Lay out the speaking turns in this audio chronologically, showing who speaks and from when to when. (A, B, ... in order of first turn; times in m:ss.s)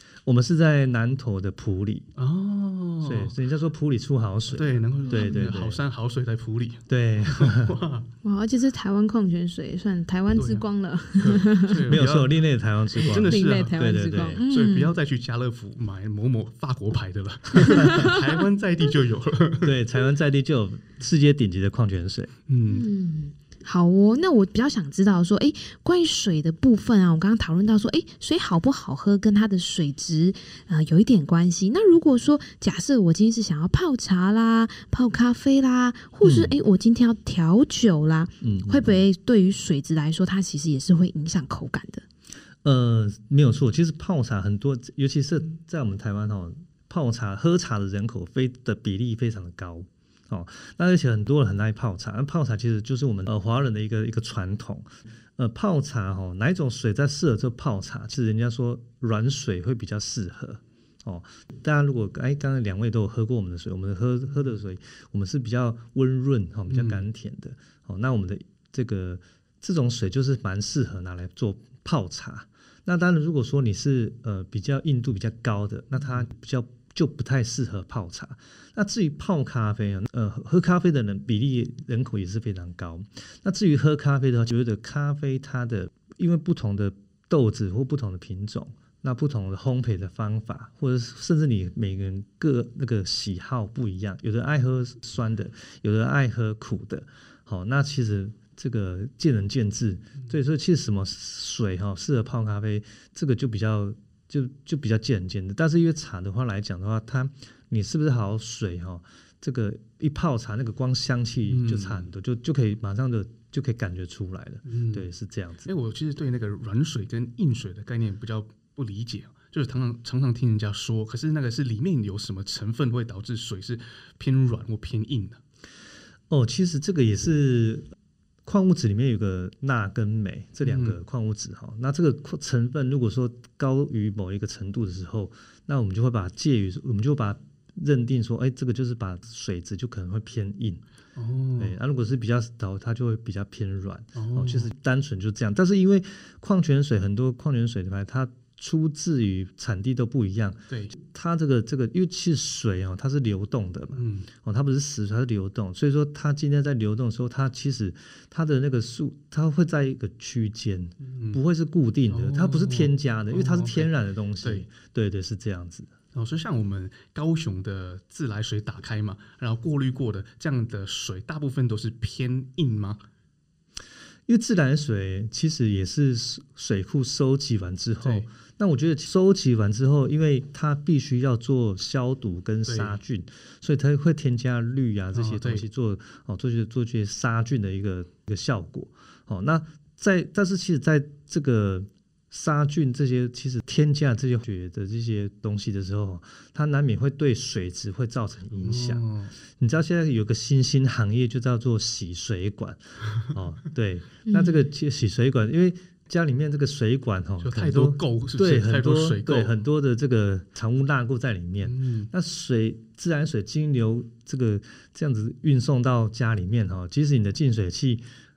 0:00.2-0:02.1 A
0:02.2-0:03.3 B
0:03.0-0:05.8 A
0:04.5-0:08.1 B
0:05.1-0:05.5 C
0:06.9-0:07.8 A
0:08.2-0:11.8 C
0:10.3-0:10.6 B
0:11.2-0:12.4 B
0:11.9-0:14.4 A
0:13.0-0:13.8 B
0:13.2-0:14.9 C
0:14.4-0:19.8 B
0:17.7-0:18.2 C
0:17.8-0:18.0 A
0:19.6-0:22.3 A
0:22.5-0:22.9 B
0:22.7-0:42.0 C
0:36.2-0:36.5 A
0:38.4-0:39.0 A
0:42.6-1:55.7 A
1:06.7-1:07.0 B
1:51.5-1:52.1 B
1:54.6-1:55.1 B
1:55.6-2:05.4 B
2:06.3-2:07.9 A
2:08.4-2:20.8 A
2:10.6-2:11.0 B
2:21.2-2:21.8 B
2:21.6-2:45.9 A
2:24.2-2:24.7 B
2:33.9-2:34.3 B
2:41.0-2:41.4 B
2:42.1-2:43.9 B
2:44.4-2:44.7 B
2:46.1-2:53.0 B
2:54.3-3:19.0 A
2:58.0-2:58.3 B
3:02.6-3:03.0 B
3:05.1-3:05.6 B
3:18.6-3:19.3 B
3:19.6-3:38.0 A
3:24.2-3:24.6 C
3:27.4-3:29.5 B
3:31.6-3:32.1 B